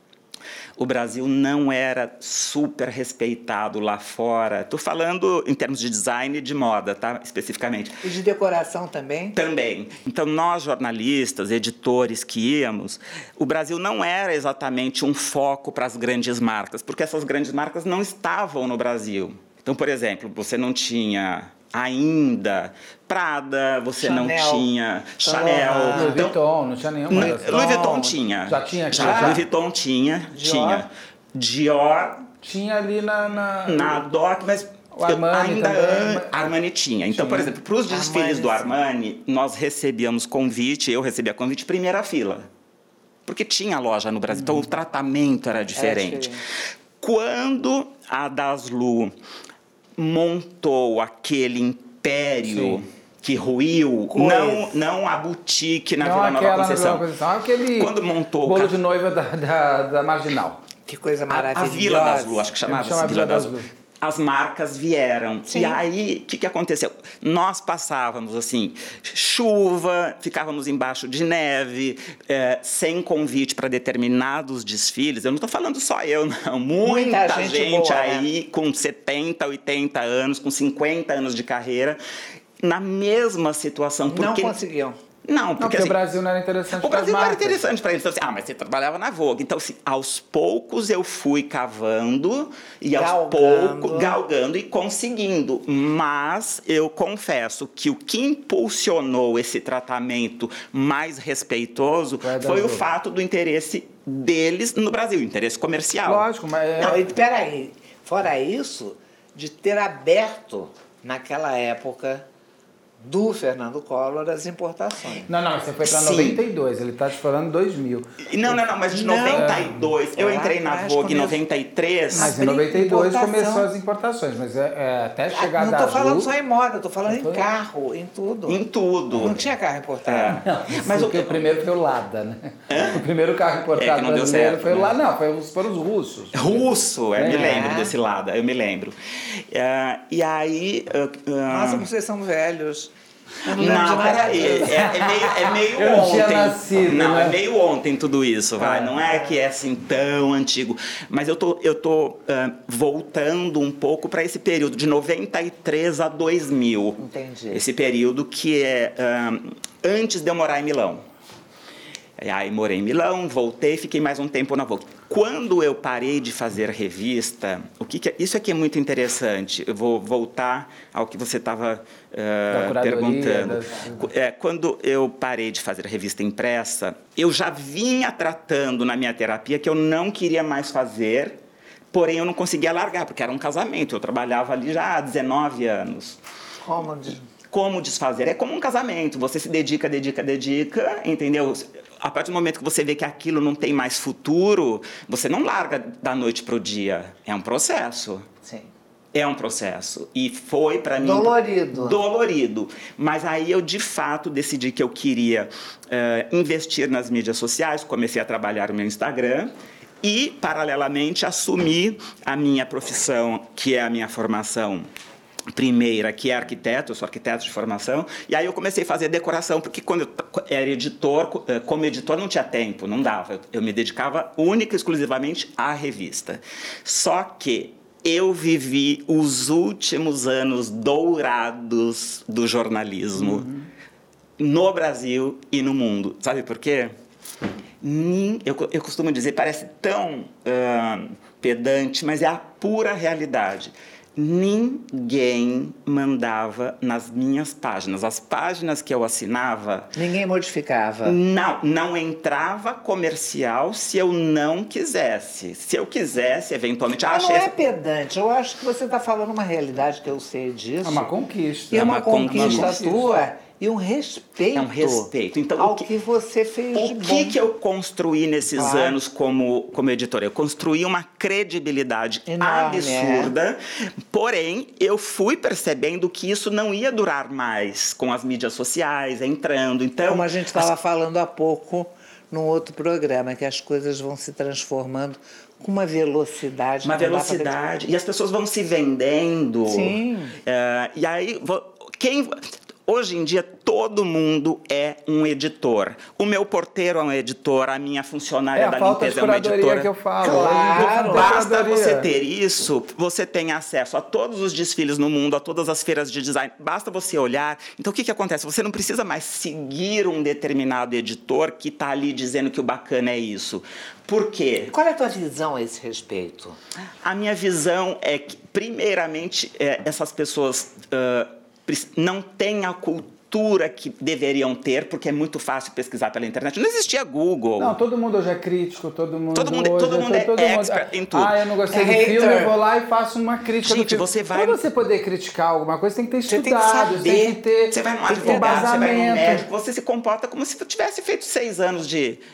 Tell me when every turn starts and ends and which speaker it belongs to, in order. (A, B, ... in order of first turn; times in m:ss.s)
0:00.8-0:08.0 A
0:08.0-0:09.4 B
0:09.3-0:26.4 A
0:24.0-0:24.7 B
0:25.2-0:26.2 B
0:25.9-0:27.9 C
0:27.1-0:32.3 A
0:27.1-0:28.2 B
0:28.4-0:29.4 C
0:28.9-0:29.4 B
0:30.3-0:30.8 B
0:32.4-0:34.1 C
0:33.6-0:42.5 A
0:34.9-0:36.4 C
0:37.1-0:37.5 C
0:37.9-0:38.8 B
0:43.2-0:46.4 A
0:45.8-0:46.4 B
0:47.0-0:49.1 A
0:50.0-0:57.1 A
0:52.4-0:52.8 C
0:54.1-0:54.7 B
0:56.0-1:00.6 C
0:57.7-0:58.8 A
1:00.9-1:02.5 B
1:01.3-1:22.0 A
1:02.6-1:03.6 C
1:05.4-1:05.8 B
1:16.8-1:18.3 B
1:22.6-1:24.5 A
1:24.1-1:25.0 B
1:25.2-1:26.0 A
1:25.6-1:27.6 C
1:26.7-1:46.2 A
1:32.9-1:34.2 B
1:42.2-1:42.8 C
1:46.0-1:47.0 C
1:46.8-1:52.2 B
1:53.0-1:55.3 B
1:55.3-1:58.2 C
1:55.8-1:56.4 A
1:58.2-2:02.3 A
1:58.9-2:01.4 B
1:59.3-1:59.8 C
2:02.1-2:03.7 B
2:02.1-2:06.3 C
2:05.3-2:08.6 B
2:07.1-2:07.5 C
2:08.5-2:09.5 A
2:09.1-2:10.4 B
2:10.0-2:11.5 A
2:10.4-2:17.7 C
2:12.7-2:13.0 A
2:13.7-2:15.0 A
2:16.3-2:21.9 A
2:17.2-2:17.9 B
2:21.5-2:22.9 B
2:23.4-2:25.0 B
2:23.5-2:37.0 A
2:23.6-2:27.4 C
2:28.6-2:29.0 C
2:29.0-2:29.3 B
2:37.0-2:37.6 B
2:37.5-2:41.0 A
2:42.2-3:01.4 A
2:52.5-2:54.1 C
3:01.9-3:06.2 A
3:06.6-3:07.2 B
3:07.5-3:18.3 A
3:19.1-3:34.9 A
3:21.0-3:22.0 B
3:35.5-3:53.5 A
3:53.2-3:53.6 C
3:54.4-3:56.9 A
3:57.8-4:09.9 A
4:10.0-4:11.2 B
4:11.0-4:17.5 A
4:17.1-4:21.1 B
4:20.8-4:23.2 C
4:21.7-4:27.4 B
4:21.7-4:23.0 A
4:24.5-4:25.9 A
4:26.7-4:40.7 A
4:28.6-4:29.0 B
4:32.3-4:33.3 B
4:40.1-4:47.5 B
4:46.8-5:14.7 A
4:49.7-4:50.4 B
4:58.5-5:02.1 C
5:00.2-5:01.3 B
5:14.7-5:16.6 B
5:17.0-5:27.8 A
5:27.6-5:39.4 C
5:29.3-5:31.4 A
5:31.7-5:32.6 B
5:33.6-5:34.6 A
5:36.3-5:37.3 B
5:37.0-5:42.2 A
5:38.2-5:38.7 B